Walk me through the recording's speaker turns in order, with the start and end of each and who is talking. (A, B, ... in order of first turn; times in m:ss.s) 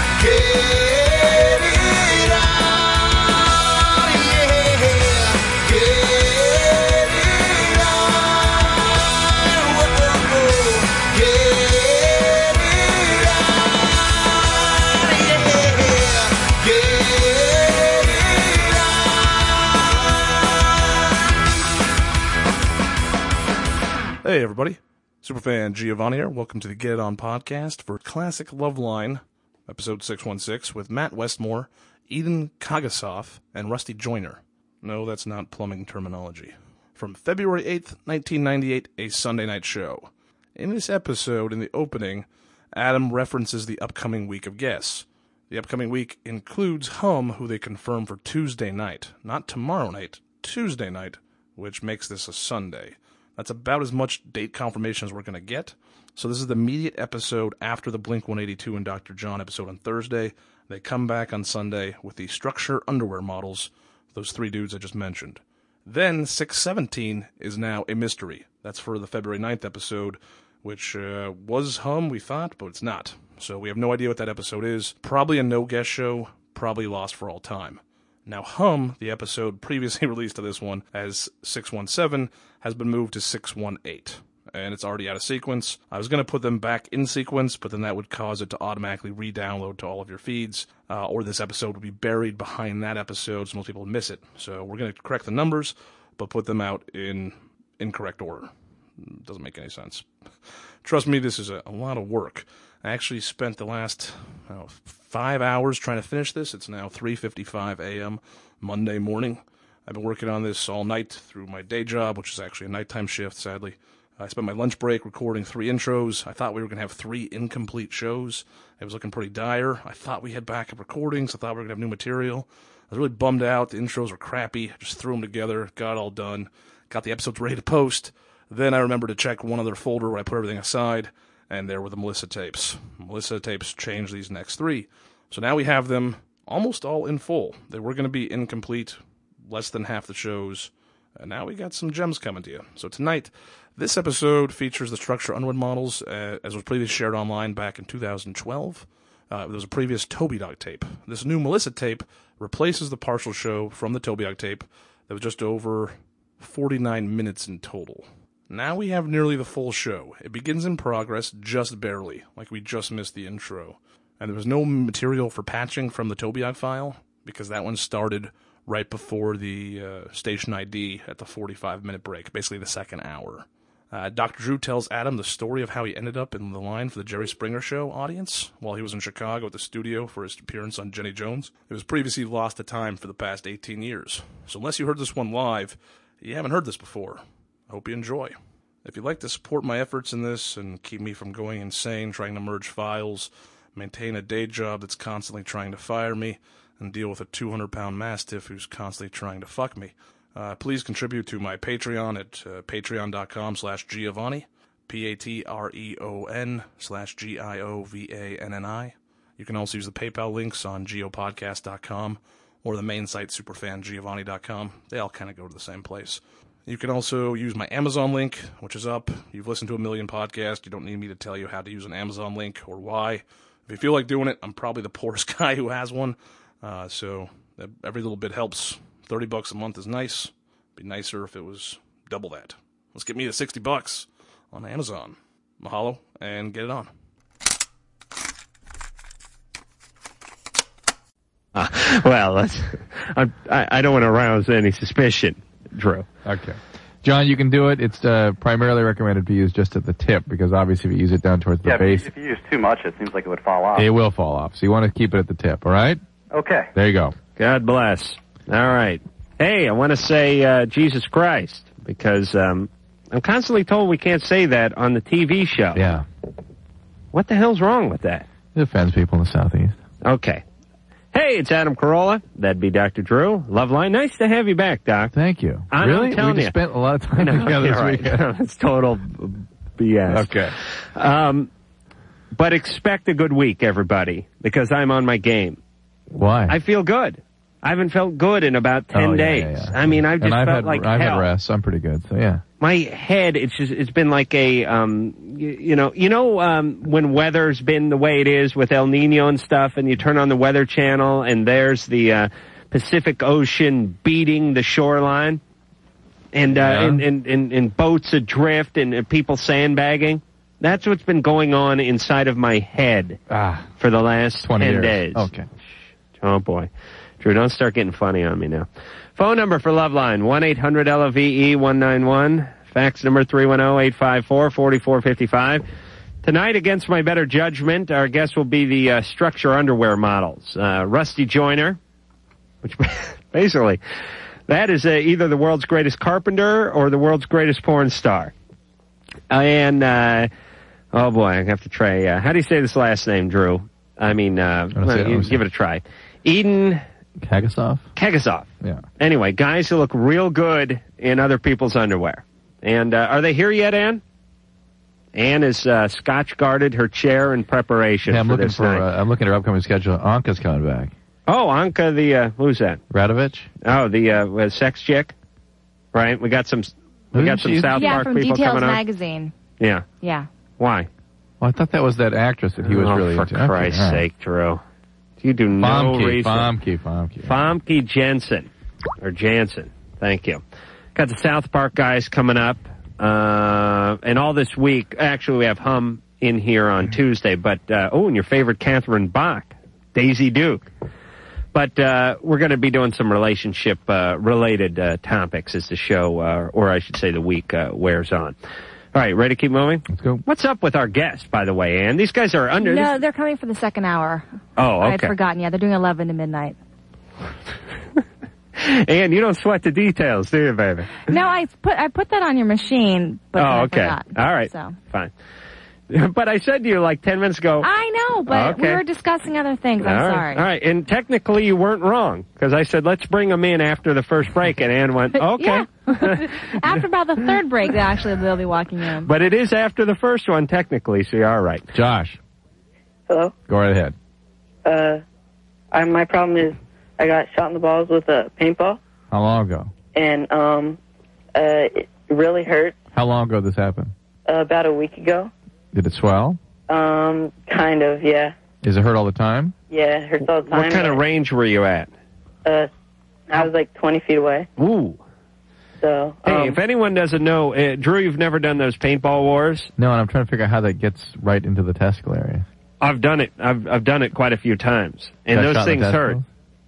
0:00.1-0:20.8 A
0:24.2-1:38.5 B
1:39.0-1:40.0 B
1:40.8-3:56.9 B
4:01.5-4:06.1 C
4:06.2-4:12.1 D
4:11.6-4:13.9 E
4:13.7-4:16.0 D
4:16.3-4:16.7 E
4:16.7-4:17.1 D
4:17.4-4:25.9 C
4:25.7-4:26.0 D
4:27.1-4:28.2 C
4:28.5-4:29.8 D
4:30.0-4:30.4 C
4:31.1-4:35.1 C
4:35.1-4:38.2 D
4:35.7-4:36.5 C
4:37.2-4:41.5 C
4:40.1-4:40.5 D
4:42.3-4:45.6 C
4:46.1-4:46.6 D
4:46.5-4:51.2 C
4:48.9-4:52.4 D
4:52.6-5:05.4 C
5:06.3-5:13.2 C
5:06.5-5:07.0 D
5:13.3-5:13.7 D
5:13.8-5:15.3 C
5:14.4-5:15.5 D
5:16.1-5:25.6 C
5:26.2-5:31.8 C
5:32.6-5:33.8 C
5:34.5-5:38.3 C
5:39.3-5:40.3 C
5:40.9-5:46.8 C
5:44.7-5:45.4 D
5:47.2-5:47.8 D
5:47.9-5:48.5 C
5:49.0-5:54.0 C
5:55.1-5:58.8 C
5:58.1-6:00.9 D
6:01.3-6:02.8 C
6:02.9-6:03.5 D
6:03.6-6:05.1 C
6:05.9-6:08.8 C
6:07.1-6:07.9 D
6:07.7-6:09.3 F
6:09.6-6:09.8 C
6:10.0-6:10.3 F
6:10.6-6:10.9 C
6:11.4-6:14.0 D
6:12.6-6:14.6 C
6:15.2-6:16.5 C
6:15.6-6:17.4 D
6:17.2-6:20.4 C
6:20.9-6:30.7 C
6:31.5-6:38.4 C
6:38.9-6:43.0 C
6:39.9-6:40.2 D
6:42.6-6:44.2 F
6:44.6-6:45.1 C
6:44.8-6:46.6 F
6:48.6-6:51.1 C
6:51.0-6:54.7 F
6:53.3-6:55.1 C
6:55.9-6:57.7 C
6:57.6-7:00.4 F
6:58.3-6:58.8 C
6:59.8-7:06.8 C
7:05.1-7:09.1 F
7:09.0-7:11.7 C
7:11.7-7:12.2 D
7:13.1-7:13.3 G
7:13.5-7:13.9 D
7:14.6-7:15.0 G
7:15.7-7:18.8 G
7:19.1-7:19.7 D
7:19.9-7:20.8 G
7:21.3-7:22.8 G
7:22.9-7:23.9 D
7:24.2-7:25.3 G
7:25.7-7:26.4 D
7:26.7-7:28.3 G
7:28.6-7:29.5 D
7:29.7-7:31.0 G
7:30.4-7:31.9 C
7:33.3-7:34.5 G
7:34.6-7:35.0 C
7:35.8-7:36.6 G
7:36.2-7:39.7 C
7:39.8-7:42.4 D
7:42.8-7:46.2 C
7:45.3-7:46.2 D